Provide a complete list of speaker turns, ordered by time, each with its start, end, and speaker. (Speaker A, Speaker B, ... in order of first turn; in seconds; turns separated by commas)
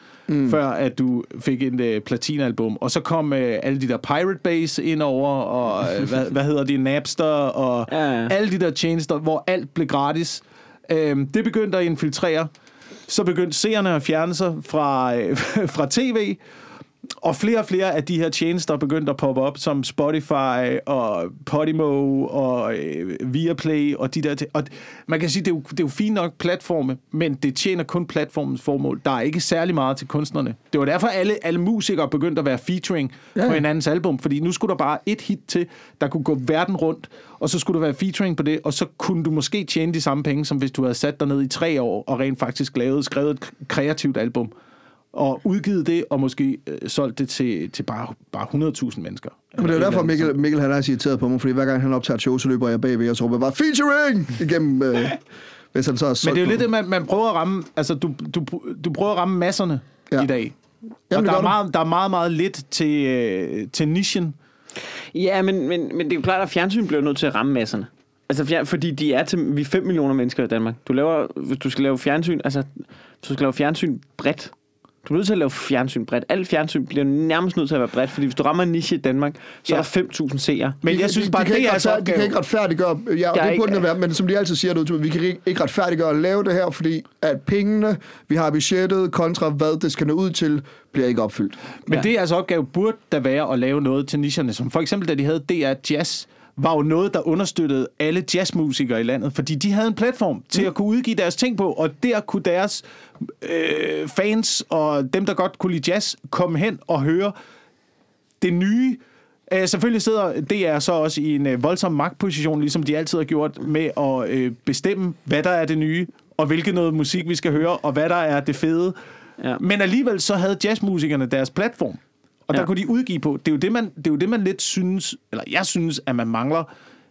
Speaker A: 0.3-0.6, Speaker B: 0.4-12.5, Speaker C: 7.9-8.3, Speaker B: 13.1-16.4, Speaker B: 17.2-44.5, Speaker A: 33.4-33.6, Speaker B: 45.1-50.3, Speaker A: 49.6-55.2, Speaker A: 55.7-56.6, Speaker B: 56.2-60.5, Speaker A: 61.1-61.6, Speaker B: 61.1-64.3, Speaker C: 65.1-74.5, Speaker C: 75.0-80.8, Speaker B: 80.8-82.3, Speaker A: 80.9-91.6, Speaker C: 83.3-83.8, Speaker B: 91.9-107.3, Speaker B: 108.4-119.0, Speaker B: 119.6-126.7